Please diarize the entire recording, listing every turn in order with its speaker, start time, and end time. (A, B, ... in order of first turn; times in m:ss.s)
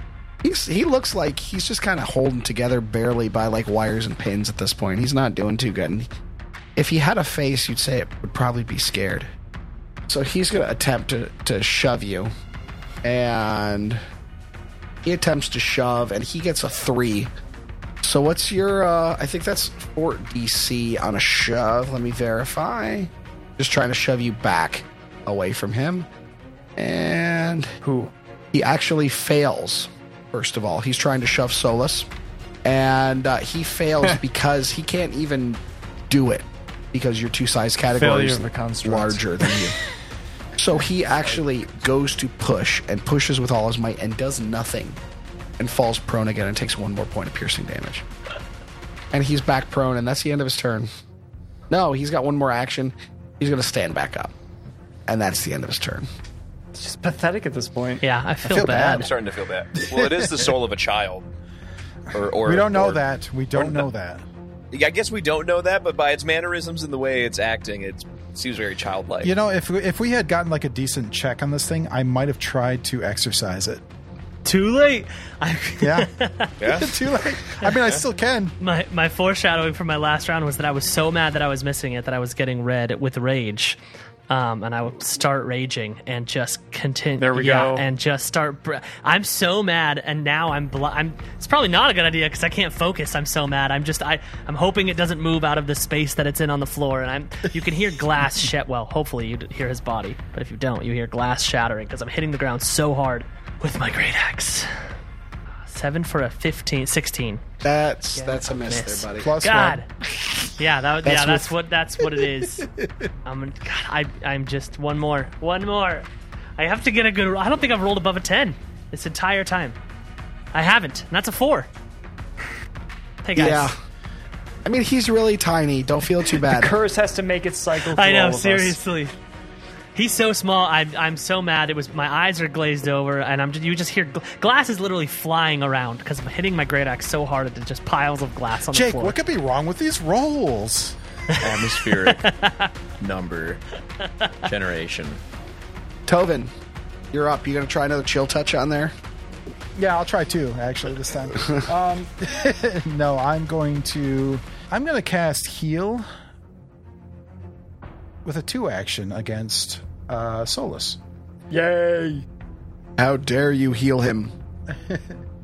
0:00.4-0:06.1 A
0:06.8-0:09.3 A
0:10.1-0:12.3 A
0:13.0-0:14.0 A
0:15.0-0:17.3 A
0:18.0-0:26.1 A
0:26.8-0:27.7 A
0:27.8-0:28.1 B
0:28.5-0:32.1 A
0:32.6-0:39.8 A
0:38.0-0:39.7 B
0:40.6-0:45.0 A
0:45.6-0:48.0 A
0:49.1-0:50.9 A
0:51.7-0:54.3 A
0:55.1-0:56.1 A
0:56.7-0:58.0 B
0:58.0-0:59.1 C
0:58.5-0:59.1 A
0:58.9-1:01.3 D
1:00.0-1:00.3 E
1:02.1-1:03.0 D
1:02.4-1:04.2 E
1:03.5-1:03.9 D
1:04.7-1:09.3 D
1:09.2-1:13.8 E
1:14.4-1:16.6 C
1:15.8-1:16.1 E
1:16.6-1:17.0 D
1:16.6-1:18.6 E
1:18.6-1:44.7 C
1:27.2-1:27.9 B
1:45.7-1:47.5 C
1:47.6-1:49.3 A
1:48.2-1:49.9 C
1:49.2-1:49.8 E
1:50.5-1:52.7 C
1:51.0-1:51.5 A
1:52.4-1:53.1 E
1:53.2-1:59.8 C
2:00.5-2:01.7 C
2:03.2-2:03.7 C
2:03.4-2:03.8 A
2:04.6-2:06.8 A
2:06.3-2:08.8 B
2:07.8-2:09.1 C
2:10.0-2:19.2 C
2:18.7-2:21.0 E
2:21.3-2:22.7 C
2:21.4-2:22.2 D
2:23.0-2:23.6 D
2:24.0-2:24.5 C
2:24.4-2:25.2 D
2:26.1-2:26.5 A
2:27.1-2:28.9 A
2:29.8-2:36.1 E
2:38.2-2:41.0 E
2:41.5-2:42.2 B
2:43.0-2:44.3 A
2:44.7-2:45.2 E